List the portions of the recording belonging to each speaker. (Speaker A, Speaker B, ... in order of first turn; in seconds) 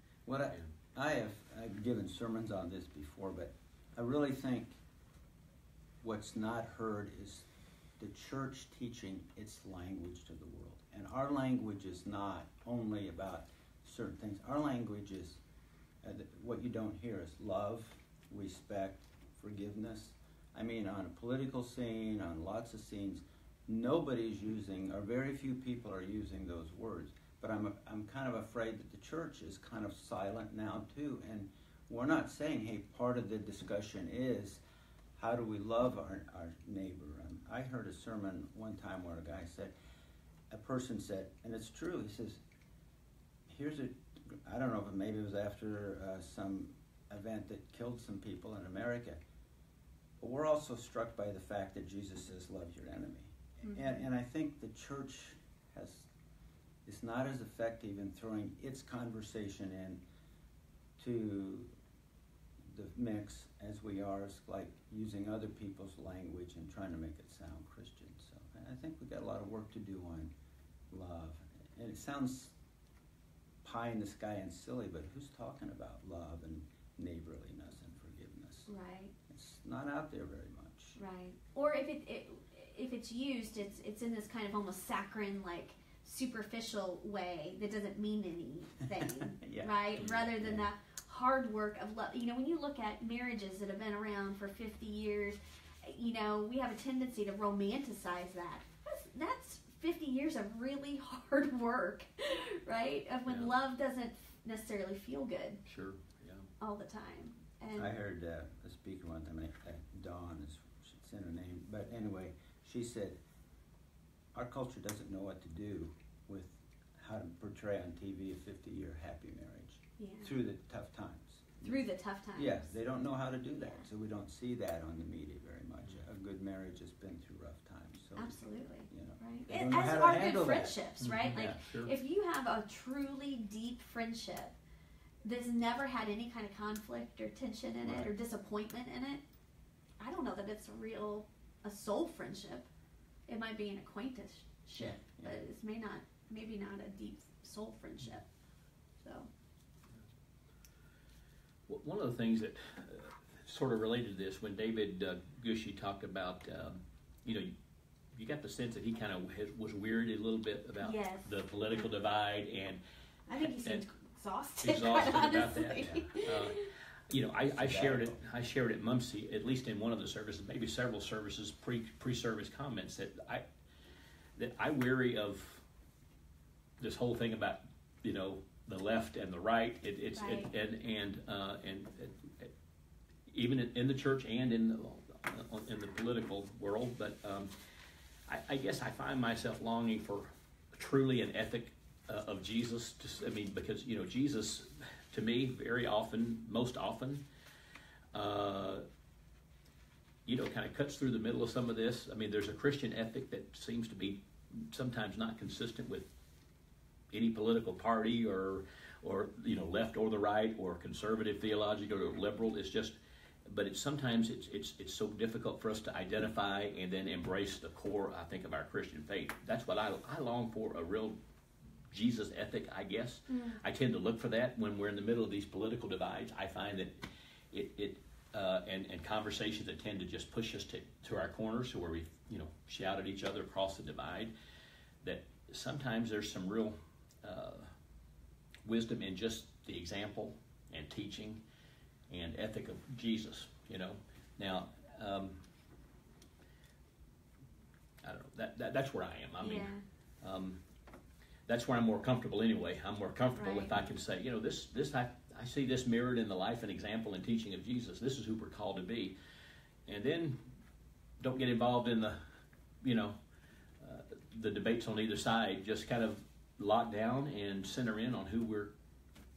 Speaker A: 0.2-4.7, 6.0-7.5, 8.0-15.4, 16.0-34.6, 35.2-39.7, 40.5-42.4, 43.5-49.2, 50.2-56.1, 56.8-60.0, 61.0-61.7, 62.7-70.3, 70.9-72.5, 73.6-78.7, 79.3-81.0, 88.9-90.7, 107.8-113.2, 114.3-121.8, 122.3-128.4, 128.9-130.8, 137.8-138.1, 144.8-145.4, 165.8-166.1, 167.5-168.2
Speaker B: 53.6-54.0, 78.7-79.1, 81.0-105.6, 106.6-107.9, 120.0-120.3, 121.6-122.7, 128.2-134.5, 135.2-139.2, 140.0-142.7, 143.3-148.2, 149.0-149.3, 160.8-161.9, 163.3-166.7, 180.1-180.5, 223.3-223.6, 249.4-249.8, 253.4-253.8
Speaker C: 90.0-90.3, 103.3-103.5, 105.6-106.5, 131.0-131.9, 151.7-157.5, 158.1-162.8, 163.4-163.8, 164.6-173.4, 174.3-175.6, 176.8-182.5, 183.3-187.5, 188.3-197.2, 198.1-198.8, 200.2-206.1, 207.1-212.9, 213.4-221.2, 221.9-234.3, 235.0-237.7, 238.6-241.4, 242.1-245.4, 248.0-250.6, 251.4-259.1, 259.9-260.4, 261.2-262.2, 262.8-263.1, 263.8-268.7